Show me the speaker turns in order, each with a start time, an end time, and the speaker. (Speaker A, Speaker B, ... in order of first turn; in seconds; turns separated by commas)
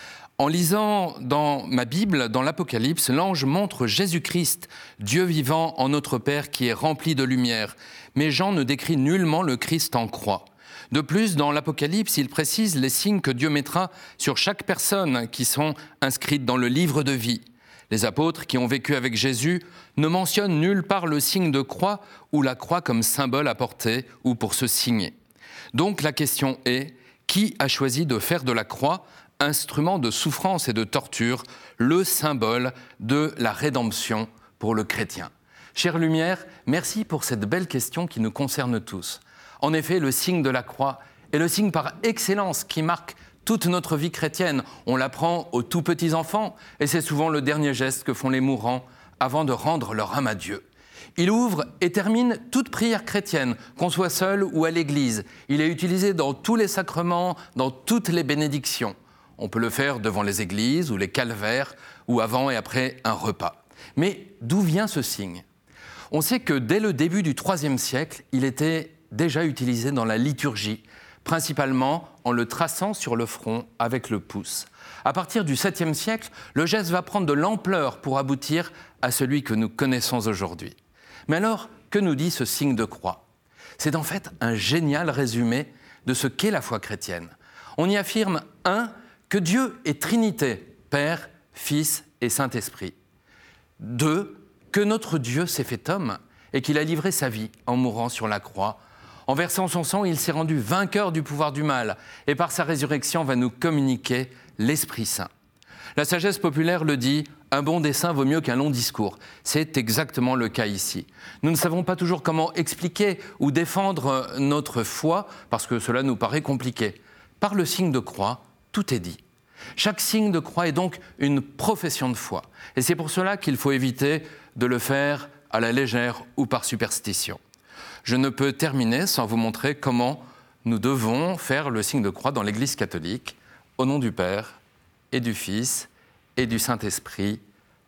Speaker A: 0.4-25.1, Speaker A: 25.7-50.6, Speaker A: 51.1-65.4, Speaker A: 66.1-80.8, Speaker A: 81.3-83.2, Speaker A: 83.8-93.0, Speaker A: 93.8-105.3, Speaker A: 106.0-119.2, Speaker A: 119.8-127.4, Speaker A: 128.0-134.6, Speaker A: 135.1-137.4